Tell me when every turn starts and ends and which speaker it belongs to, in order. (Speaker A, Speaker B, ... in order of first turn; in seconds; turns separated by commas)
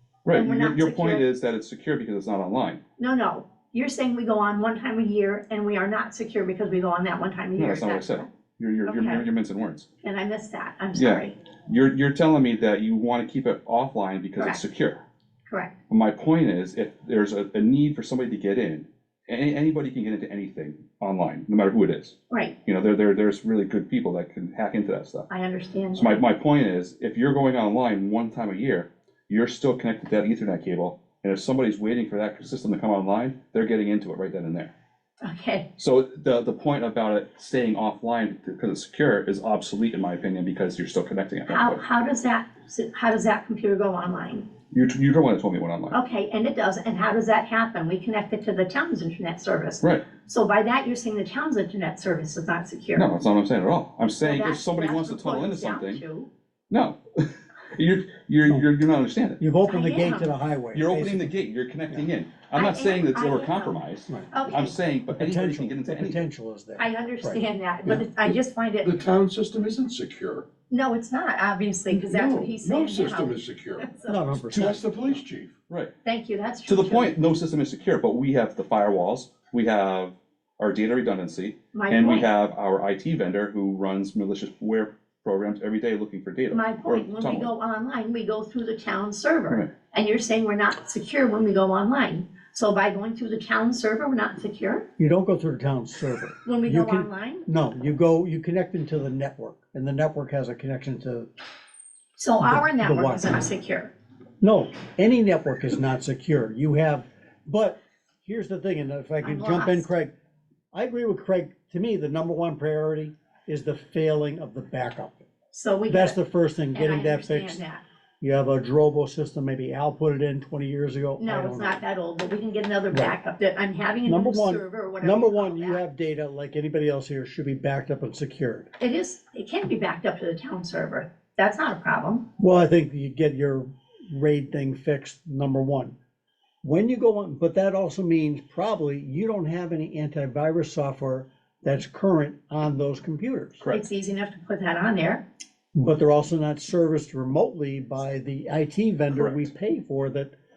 Speaker A: 0.2-2.8, Speaker B: 0.3-1.2, Speaker B: 3.0-8.3, Speaker A: 7.5-9.9, Speaker B: 8.9-9.2, Speaker B: 10.0-11.4, Speaker A: 10.9-15.0, Speaker B: 15.5-15.7, Speaker A: 15.9-25.3, Speaker B: 22.3-22.6, Speaker B: 25.3-26.2, Speaker A: 25.9-34.7, Speaker B: 35.2-35.7, Speaker A: 35.8-41.8, Speaker B: 41.5-44.5, Speaker A: 44.7-46.0, Speaker B: 45.9-53.1, Speaker A: 49.8-50.0, Speaker A: 53.0-56.0, Speaker B: 54.2-56.3, Speaker A: 56.7-59.4, Speaker C: 59.4-61.3, Speaker B: 59.7-60.3, Speaker A: 60.7-66.3, Speaker B: 62.5-64.7, Speaker C: 64.1-64.4, Speaker C: 65.1-68.0, Speaker B: 66.8-69.0, Speaker D: 68.8-70.4, Speaker B: 70.7-74.2, Speaker D: 71.9-73.9, Speaker C: 74.1-75.2, Speaker D: 74.4-75.5, Speaker B: 76.0-77.1, Speaker A: 76.7-87.5, Speaker B: 81.7-82.3, Speaker B: 86.5-94.9, Speaker C: 95.0-101.3, Speaker B: 96.4-97.5, Speaker B: 102.2-103.9, Speaker C: 102.4-103.3, Speaker C: 104.4-110.1, Speaker B: 109.2-109.9, Speaker C: 110.7-115.3, Speaker B: 115.5-116.2, Speaker C: 115.9-117.6, Speaker B: 116.7-117.8, Speaker C: 118.2-121.8, Speaker B: 121.2-125.8, Speaker C: 122.9-123.2, Speaker C: 124.0-128.7, Speaker B: 128.8-132.2, Speaker C: 132.4-135.9, Speaker C: 136.6-143.6, Speaker A: 143.6-143.9, Speaker B: 143.7-145.2, Speaker C: 145.8-150.3, Speaker A: 149.1-149.5